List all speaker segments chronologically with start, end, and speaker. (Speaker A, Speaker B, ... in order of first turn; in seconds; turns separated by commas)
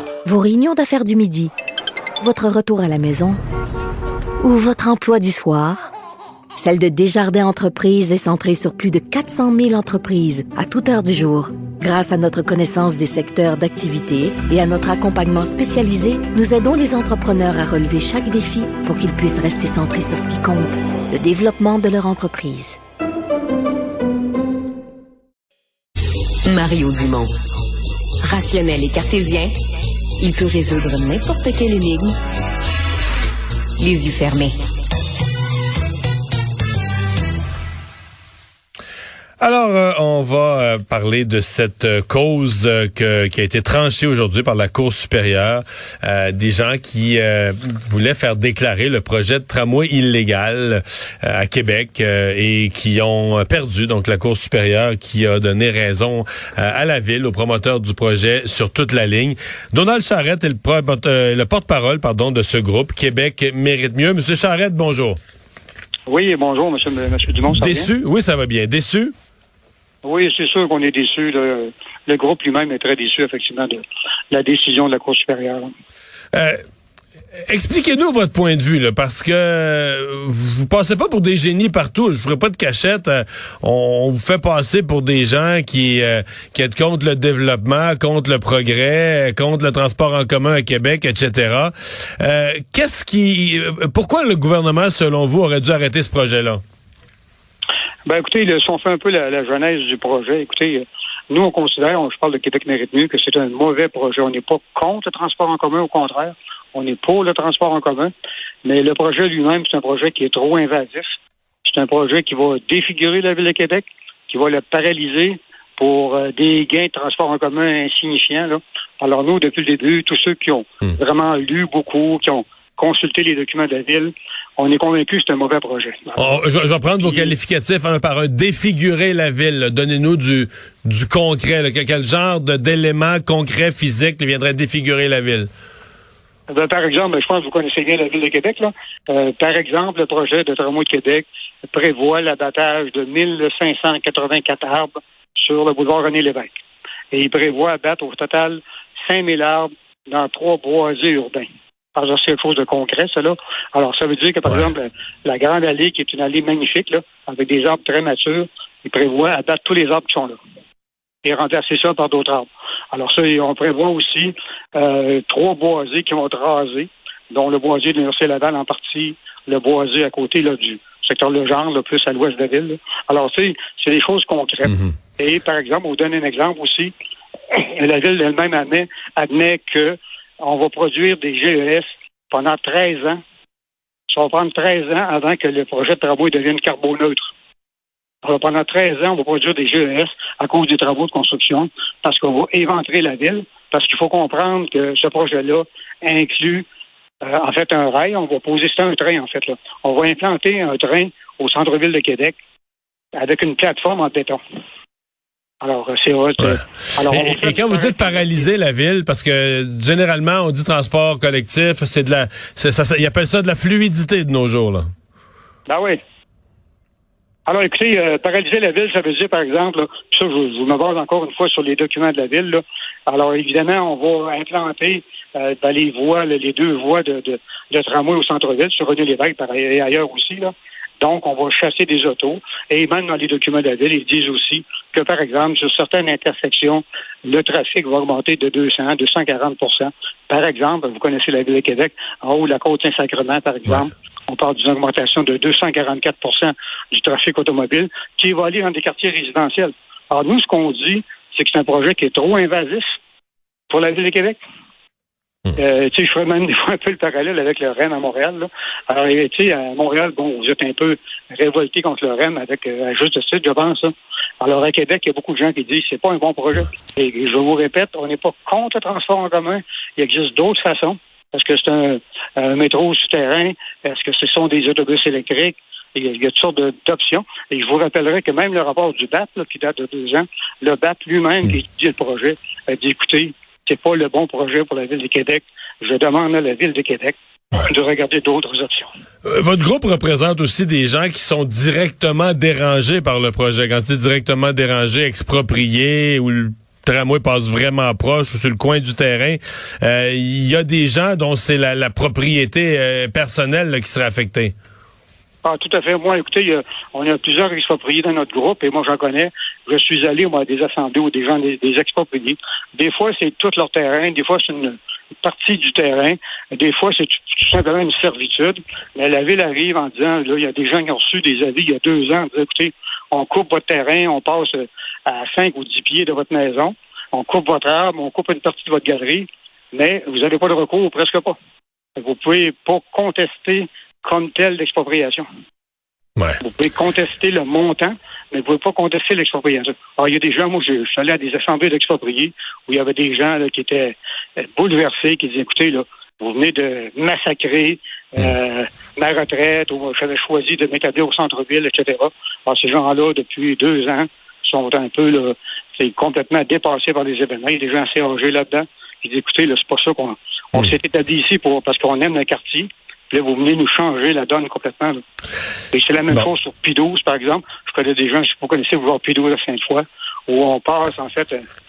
Speaker A: 0.2-1.5, Speaker A: 2.2-3.4, Speaker A: 4.4-5.9, Speaker A: 6.5-22.8, Speaker B: 26.4-27.3, Speaker B: 28.2-29.6, Speaker B: 30.2-32.2, Speaker B: 33.8-34.6, Speaker C: 39.4-65.2, Speaker D: 66.1-67.9, Speaker C: 67.5-69.1, Speaker D: 70.0-75.7, Speaker C: 76.3-76.6, Speaker C: 77.5-96.6, Speaker D: 98.0-108.1, Speaker D: 108.6-126.4, Speaker C: 126.2-135.5, Speaker D: 127.0-127.3, Speaker D: 136.5-146.5, Speaker D: 147.1-160.4, Speaker D: 161.2-176.9, Speaker D: 177.5-183.2, Speaker D: 184.1-187.3, Speaker D: 188.2-196.7, Speaker D: 197.2-202.4, Speaker D: 203.1-204.4, Speaker D: 205.6-208.5, Speaker C: 206.4-214.9, Speaker D: 215.7-216.0, Speaker D: 217.4-252.9, Speaker D: 253.7-254.4, Speaker D: 255.5-288.9, Speaker C: 289.2-304.5, Speaker D: 305.4-331.4, Speaker D: 332.0-335.2, Speaker D: 336.4-365.0, Speaker D: 365.7-371.4